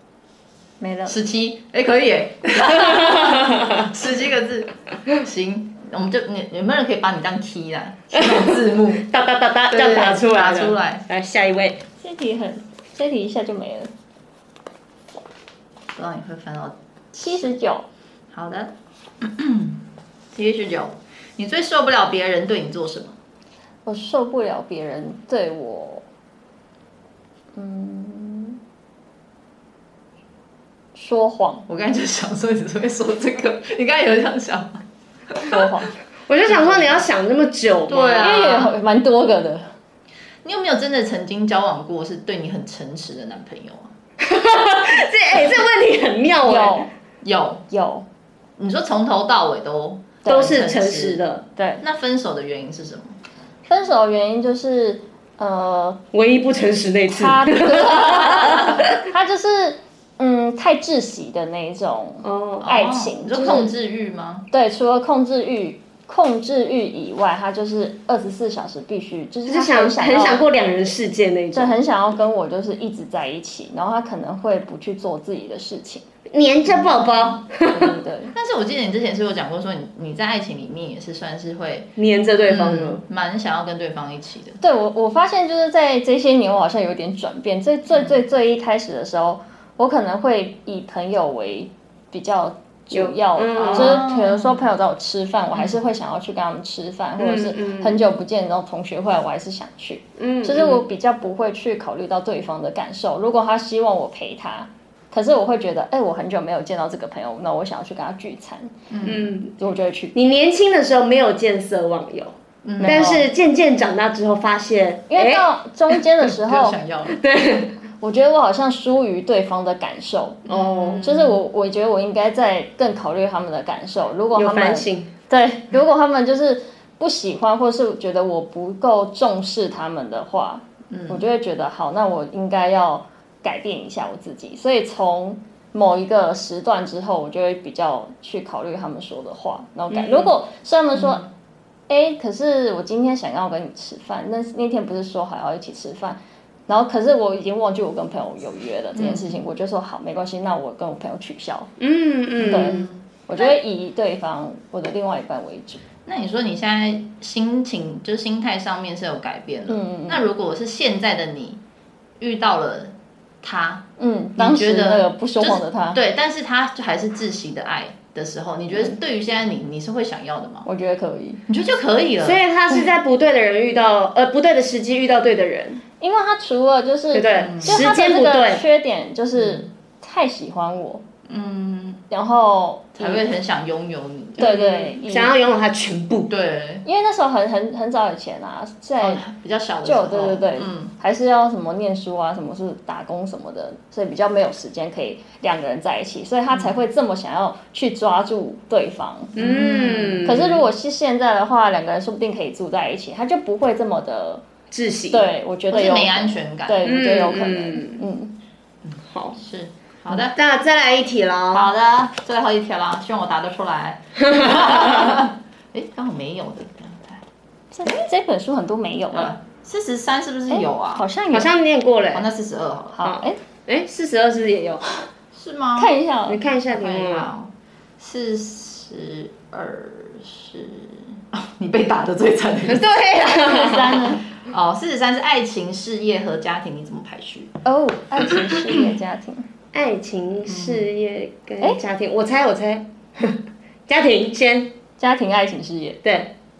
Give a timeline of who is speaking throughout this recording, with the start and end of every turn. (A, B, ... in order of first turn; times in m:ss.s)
0:00.8-0:01.2 A
0:01.1-0:09.0 B
0:03.3-0:03.6 C
0:08.1-0:11.8 C
0:09.7-0:11.0 B
0:12.0-0:13.9 A
0:15.9-0:17.4 B
0:17.1-0:17.8 A
0:18.3-0:23.2 B
0:23.8-0:26.0 A
0:27.5-0:28.6 A
0:30.9-0:31.6 A
0:31.7-0:35.6 B
0:35.5-0:35.9 A
0:36.3-0:38.5 C
0:36.5-0:37.0 B
0:37.9-0:38.7 B
0:38.2-0:39.7 A
0:40.4-0:43.9 B
0:44.2-0:46.9 C
0:46.4-0:46.9 A
0:47.2-0:47.6 B
0:47.7-0:48.0 A
0:48.6-0:51.2 B
0:50.2-0:50.6 A
0:50.2-0:51.4 C
0:51.6-0:51.8 A
0:51.8-0:53.2 B
0:53.7-0:56.0 A
0:56.1-0:58.9 C
0:57.1-1:03.7 A
1:02.2-1:02.7 C
1:02.6-1:04.4 B
1:04.5-1:10.4 A
1:09.5-1:11.8 C
1:11.5-1:16.0 A
1:16.3-1:18.0 C
1:17.7-1:18.3 A
1:18.3-1:21.9 B
1:22.0-1:23.0 C
1:22.5-1:24.6 B
1:24.6-1:48.9 A
1:32.9-1:34.0 C
1:33.6-1:34.7 B
1:35.5-1:35.8 B
1:37.2-1:38.0 C
1:40.2-1:40.8 C
1:48.9-1:49.2 B
1:49.0-1:49.5 C
1:49.6-1:50.1 A
1:50.1-1:55.4 C
1:52.6-1:53.2 B
1:52.8-1:53.2 A
1:55.1-1:56.8 A
1:56.4-1:57.2 B
1:57.1-1:57.7 C
1:58.0-2:21.2 A
2:00.5-2:01.4 B
2:04.3-2:05.1 C
2:10.9-2:11.2 B
2:19.9-2:20.3 B
2:20.9-2:21.3 B
2:21.9-2:31.7 A
2:28.9-2:29.3 B
2:31.8-2:32.9 C
2:32.4-2:35.8 A
2:32.5-2:33.5 B
2:36.0-2:41.6 B
2:39.7-2:40.2 A
2:42.2-2:43.8 B
2:44.0-2:46.0 A
2:44.4-2:50.7 B
2:50.6-2:51.4 A
2:51.5-2:52.4 B
2:52.2-2:55.8 C
2:56.0-3:01.0 A
2:57.1-2:58.6 C
2:57.4-2:57.9 B
2:59.4-2:59.6 B
3:01.3-3:02.0 B
3:02.1-3:03.2 A
3:03.0-3:04.5 B
3:04.4-3:05.3 A
3:04.4-3:06.3 C
3:06.3-3:06.8 B
3:06.8-3:09.2 A
3:09.0-3:10.9 B
3:09.8-3:24.4 A
3:16.5-3:16.8 B
3:19.4-3:20.2 B
3:19.4-3:20.6 C
3:24.7-3:25.2 C
3:25.1-3:28.3 A
3:25.7-3:26.8 B
3:26.8-3:28.0 C
3:28.8-3:30.4 B
3:29.1-3:29.4 C
3:30.1-3:31.6 C
3:31.5-3:37.2 B
3:34.2-3:35.1 C
3:37.7-3:39.3 A
3:39.1-3:41.0 B
3:40.5-3:41.5 A
3:41.3-3:42.2 C
3:42.1-3:43.0 B
3:43.0-3:43.4 A
3:43.0-3:45.0 C
3:45.3-3:45.9 B
3:45.8-3:46.4 A
3:46.3-3:47.3 C
3:46.7-3:52.9 B
3:52.6-3:54.1 C
3:53.4-3:54.2 A
3:54.4-3:57.5 B
3:57.6-3:59.5 A
3:59.7-4:04.7 C
4:00.5-4:00.8 B
4:05.0-4:06.0 A
4:06.0-4:06.3 C